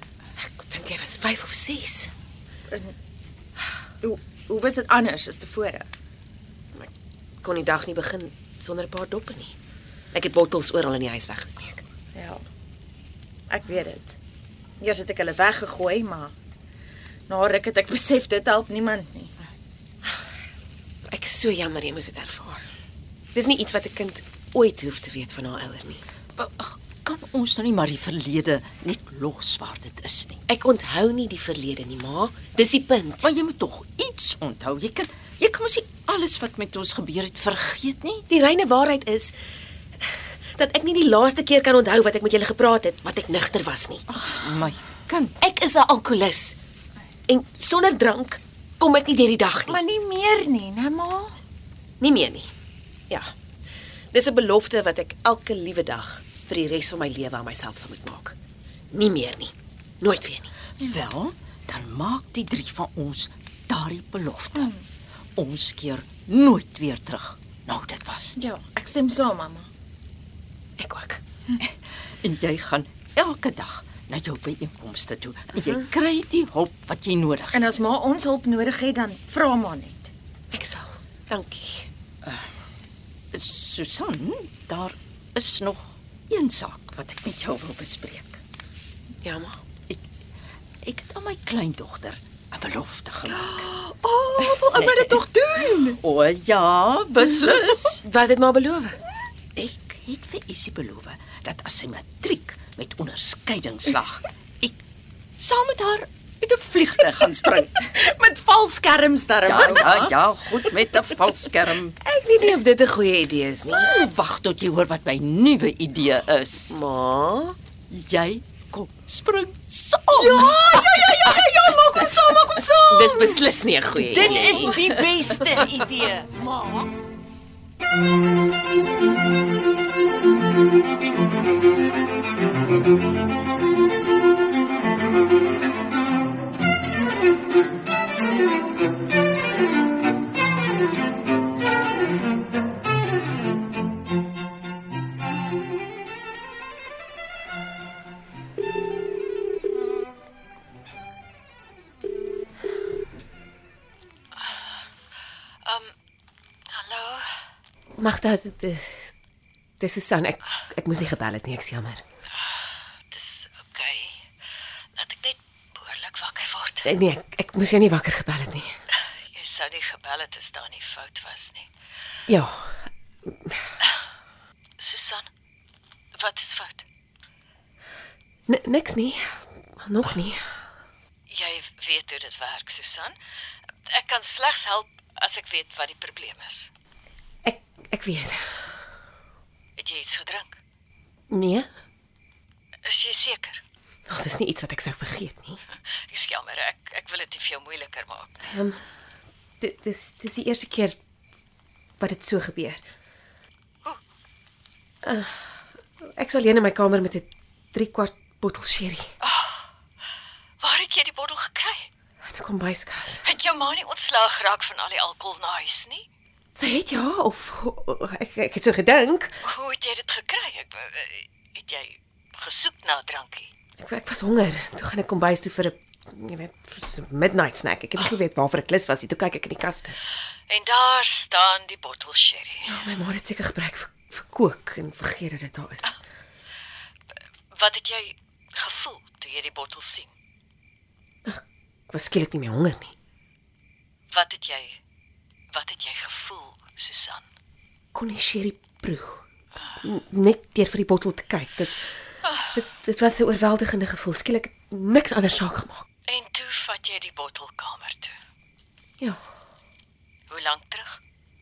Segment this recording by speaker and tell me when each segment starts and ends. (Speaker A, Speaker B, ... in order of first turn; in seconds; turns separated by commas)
Speaker A: 0.4-2.1, Speaker B: 4.0-5.9, Speaker A: 7.4-9.5, Speaker A: 10.1-11.8, Speaker B: 12.2-12.4, Speaker B: 13.5-14.2, Speaker B: 14.8-16.3, Speaker B: 17.3-19.4, Speaker A: 21.1-22.6, Speaker A: 23.3-26.0, Speaker C: 26.4-30.4, Speaker A: 30.5-33.3, Speaker C: 33.2-38.2, Speaker A: 38.3-39.3, Speaker A: 40.5-44.0, Speaker C: 44.1-45.3, Speaker A: 45.4-46.6, Speaker A: 47.3-49.8, Speaker B: 49.7-51.3, Speaker A: 52.0-52.5, Speaker A: 54.1-58.4, Speaker A: 58.9-60.5, Speaker C: 60.9-64.7, Speaker B: 64.5-64.8, Speaker C: 65.4-68.4, Speaker B: 68.4-69.7, Speaker A: 70.8-71.2, Speaker C: 71.6-77.7, Speaker B: 77.5-80.1, Speaker A: 80.5-81.9, Speaker C: 83.3-88.4, Speaker A: 89.2-89.6, Speaker C: 90.8-93.7, Speaker B: 93.3-96.0, Speaker C: 94.4-98.0, Speaker A: 98.0-99.0, Speaker C: 99.6-104.8, Speaker C: 105.4-107.8, Speaker B: 107.6-110.1, Speaker C: 109.4-112.0, Speaker A: 112.0-113.9, Speaker C: 113.7-116.8, Speaker A: 116.7-117.6, Speaker C: 117.9-126.9, Speaker A: 122.9-125.7, Speaker D: 154.3-154.7, Speaker D: 155.6-155.9, Speaker D: 156.7-157.3, Speaker A: 158.0-159.1, Speaker A: 159.8-162.0, Speaker D: 163.1-164.2, Speaker D: 164.9-166.9, Speaker A: 166.8-168.7, Speaker D: 168.9-171.7, Speaker A: 172.3-172.9, Speaker D: 174.8-175.3, Speaker D: 176.2-176.9, Speaker A: 178.5-180.4, Speaker D: 181.3-183.2, Speaker D: 183.9-186.7, Speaker A: 187.4-188.6, Speaker D: 189.8-190.6, Speaker A: 191.3-191.7, Speaker D: 192.8-193.6, Speaker A: 194.1-195.6, Speaker D: 195.7-198.5, Speaker A: 198.5-198.8, Speaker A: 199.6-201.0, Speaker A: 202.0-202.8, Speaker A: 205.0-205.5, Speaker A: 206.0-209.1, Speaker D: 209.2-209.7, Speaker D: 210.6-211.9, Speaker A: 212.2-213.2, Speaker D: 213.2-216.1, Speaker A: 216.6-219.4, Speaker D: 219.4-223.5, Speaker A: 223.8-230.0, Speaker D: 230.5-232.8, Speaker A: 232.7-236.0, Speaker D: 237.5-240.1, Speaker A: 241.3-242.9, Speaker D: 244.1-244.8, Speaker D: 245.5-247.2, Speaker A: 247.9-249.2, Speaker A: 249.8-251.9, Speaker D: 252.2-252.6, Speaker A: 252.5-255.8, Speaker D: 256.1-258.1, Speaker D: 260.3-261.0